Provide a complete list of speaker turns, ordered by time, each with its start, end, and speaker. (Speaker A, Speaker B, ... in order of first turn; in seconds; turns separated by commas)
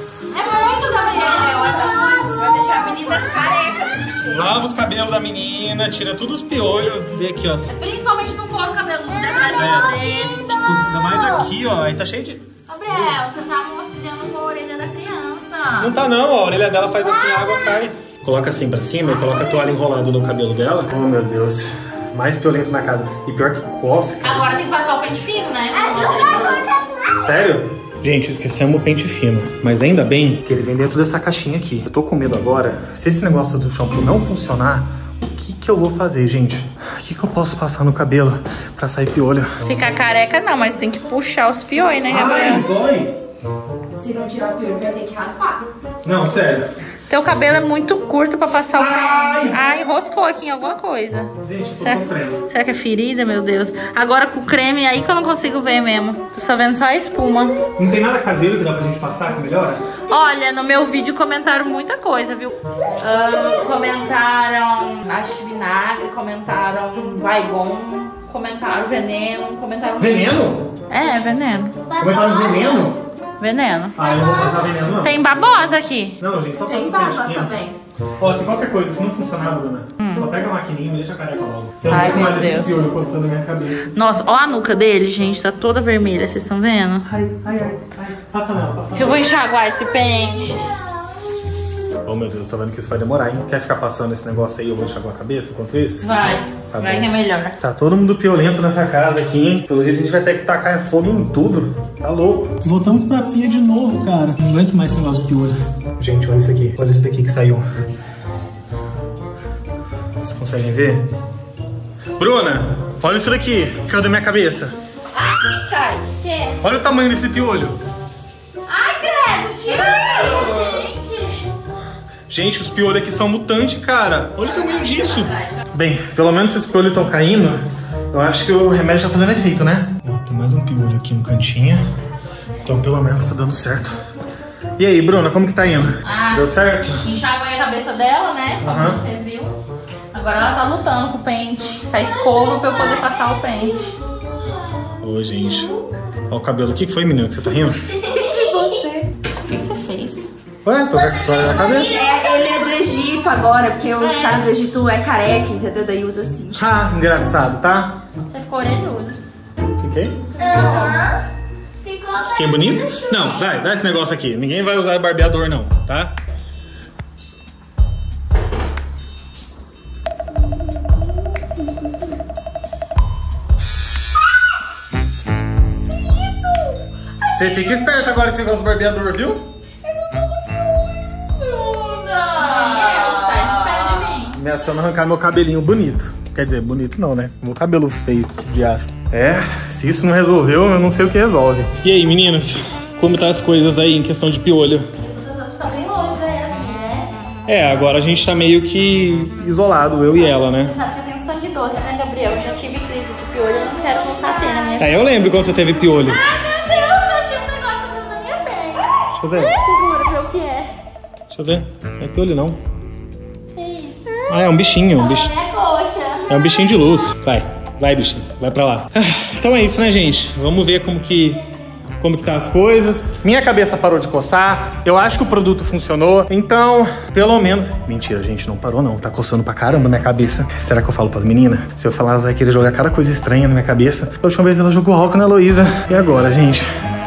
Speaker A: 0.3-2.5, Speaker B: 0.9-4.5, Speaker C: 4.3-7.7, Speaker A: 7.7-11.5, Speaker C: 9.6-12.4, Speaker A: 12.7-15.9, Speaker C: 15.8-24.5, Speaker A: 24.2-26.7, Speaker C: 27.2-39.6, Speaker A: 39.6-42.6, Speaker C: 42.1-43.1, Speaker B: 43.9-45.6, Speaker C: 46.0-46.7, Speaker A: 47.1-57.6, Speaker C: 48.7-49.6, Speaker C: 51.4-52.4, Speaker C: 57.8-59.8, Speaker A: 60.1-71.9, Speaker C: 70.0-70.7, Speaker C: 71.9-73.0, Speaker A: 73.4-74.0, Speaker C: 74.0-75.2, Speaker A: 75.0-77.8, Speaker C: 76.2-77.6, Speaker C: 78.2-83.9, Speaker A: 80.0-80.3, Speaker A: 81.8-82.8, Speaker A: 83.9-87.1, Speaker C: 87.0-89.3, Speaker A: 88.9-90.7, Speaker C: 92.0-107.7, Speaker A: 96.0-97.5, Speaker C: 110.2-111.1, Speaker C: 112.2-114.8, Speaker A: 115.3-116.5, Speaker C: 116.6-117.8, Speaker A: 118.7-121.5, Speaker C: 120.4-120.8, Speaker C: 122.3-131.8, Speaker A: 124.4-125.6, Speaker C: 132.6-134.0, Speaker C: 134.8-137.0, Speaker A: 136.0-136.5, Speaker A: 137.0-139.5, Speaker C: 138.6-139.0, Speaker A: 140.1-143.9, Speaker C: 145.0-145.8, Speaker C: 146.3-148.0, Speaker B: 147.9-149.1, Speaker A: 149.5-150.3, Speaker C: 150.6-152.0, Speaker B: 151.6-156.6, Speaker A: 154.0-154.5, Speaker C: 156.5-158.0, Speaker A: 158.2-159.2, Speaker C: 159.8-160.2, Speaker A: 160.4-161.1, Speaker C: 162.2-166.1, Speaker C: 177.3-179.4, Speaker A: 181.4-184.4, Speaker C: 184.3-194.9, Speaker A: 195.0-197.1, Speaker C: 197.5-200.7, Speaker A: 200.2-204.9, Speaker C: 204.8-206.2, Speaker A: 206.0-210.7, Speaker C: 209.2-209.6, Speaker C: 211.3-212.6, Speaker A: 213.5-214.3, Speaker C: 214.3-215.3, Speaker A: 214.9-216.8, Speaker C: 216.3-221.4, Speaker C: 222.0-236.7